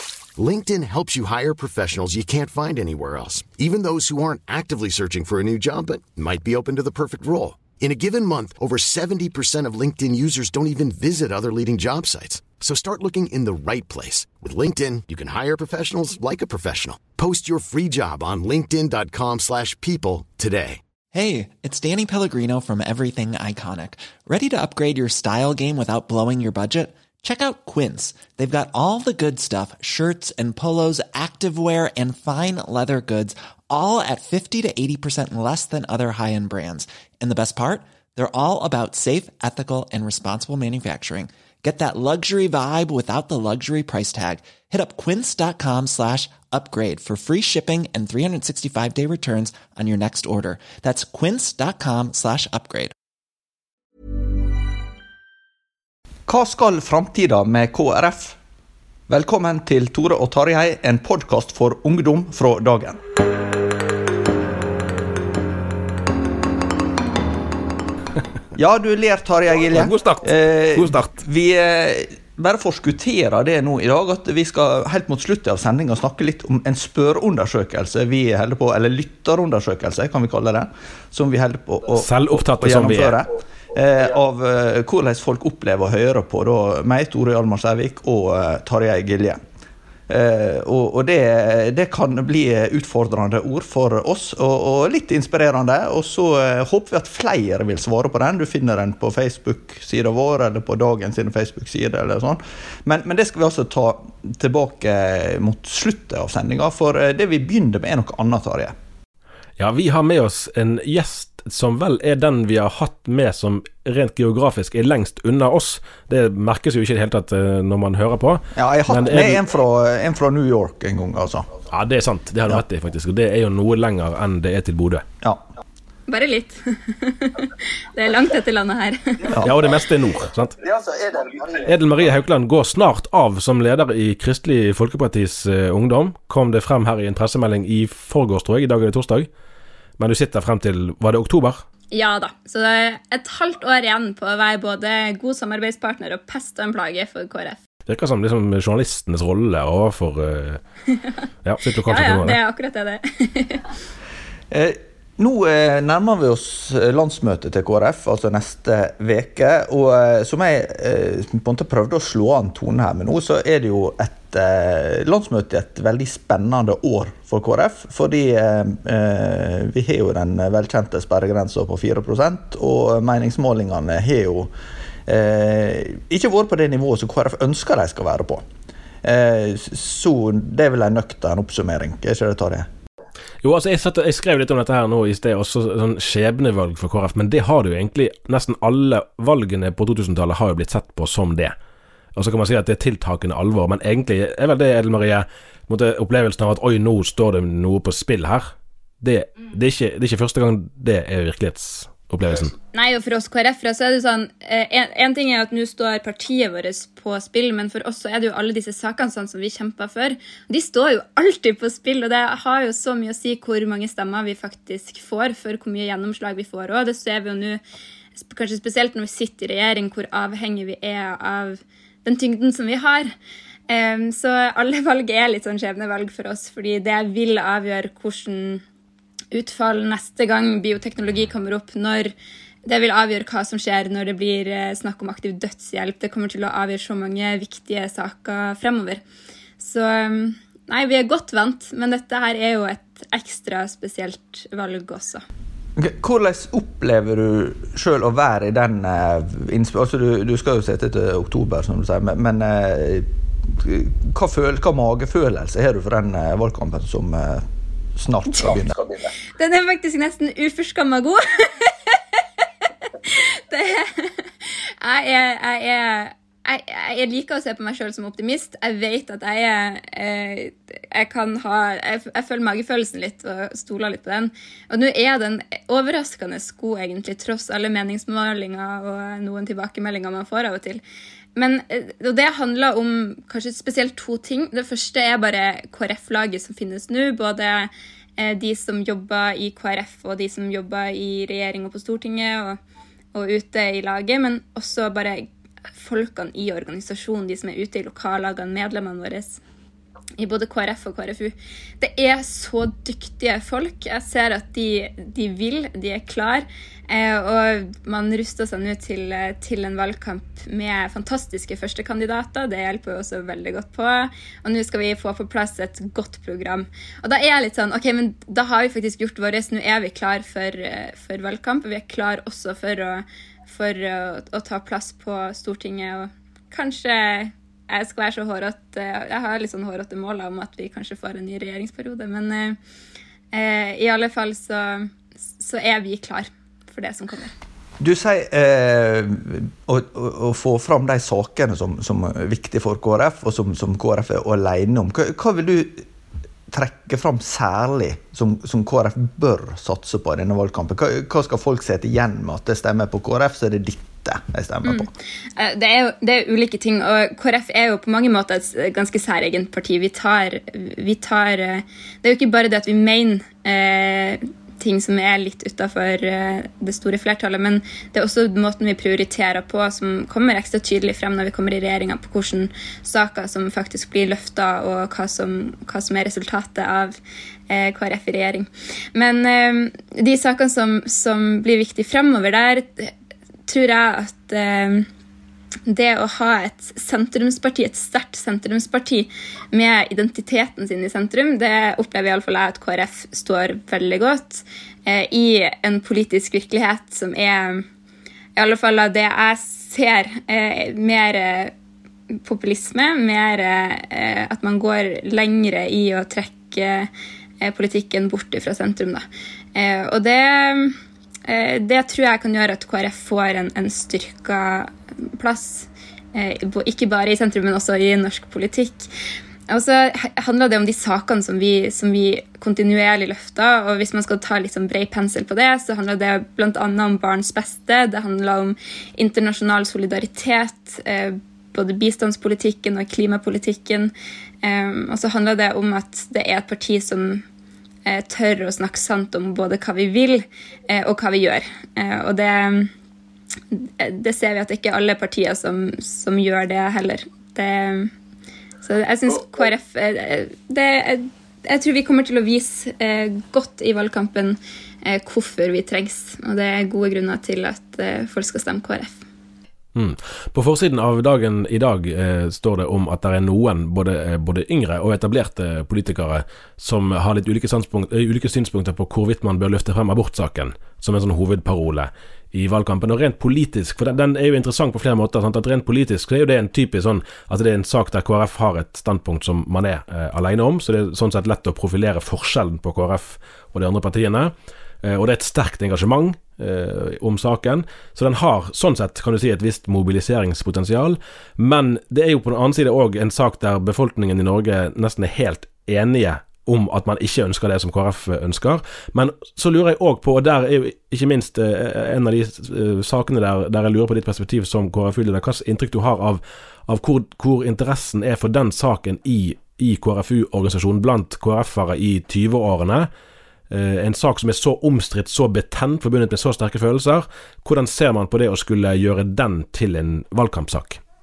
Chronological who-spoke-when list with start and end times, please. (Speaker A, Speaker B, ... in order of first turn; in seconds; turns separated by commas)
Speaker A: 0.3-20.8, Speaker B: 21.1-52.9, Speaker C: 56.3-58.4, Speaker C: 59.1-63.0, Speaker C: 68.5-89.4, Speaker D: 69.7-71.1, Speaker D: 81.9-83.2, Speaker C: 90.1-108.7, Speaker D: 109.6-119.4, Speaker C: 118.5-121.5, Speaker D: 121.7-125.0, Speaker E: 126.1-129.3, Speaker C: 129.3-129.6, Speaker D: 129.3-130.6, Speaker C: 130.6-131.7, Speaker D: 131.6-139.3, Speaker D: 140.0-141.6, Speaker E: 141.9-147.6, Speaker D: 147.8-150.6, Speaker D: 151.4-152.4, Speaker E: 151.8-153.7, Speaker C: 154.5-174.5, Speaker C: 175.1-178.4, Speaker C: 179.0-182.7, Speaker D: 183.4-191.5, Speaker D: 192.2-198.5, Speaker D: 199.0-202.5, Speaker E: 202.7-217.6, Speaker E: 218.2-223.1, Speaker E: 223.7-228.6, Speaker E: 229.3-232.1, Speaker E: 232.7-239.0, Speaker E: 239.6-245.2, Speaker C: 245.8-258.8, Speaker E: 259.4-262.0, Speaker E: 263.0-280.8, Speaker E: 281.4-292.6, Speaker E: 293.1-295.2, Speaker E: 295.8-299.4, Speaker E: 300.2-332.6, Speaker E: 333.3-337.3, Speaker C: 337.8-345.9, Speaker C: 346.5-354.9, Speaker E: 354.6-377.0, Speaker E: 377.5-382.9, Speaker E: 383.5-384.9, Speaker E: 385.7-397.6, Speaker E: 398.4-401.5, Speaker E: 402.1-406.9, Speaker E: 407.4-418.9, Speaker E: 419.5-433.9, Speaker E: 434.4-437.2, Speaker E: 437.9-442.7, Speaker E: 443.5-447.9, Speaker E: 448.6-459.0, Speaker D: 459.7-512.9, Speaker D: 513.5-520.8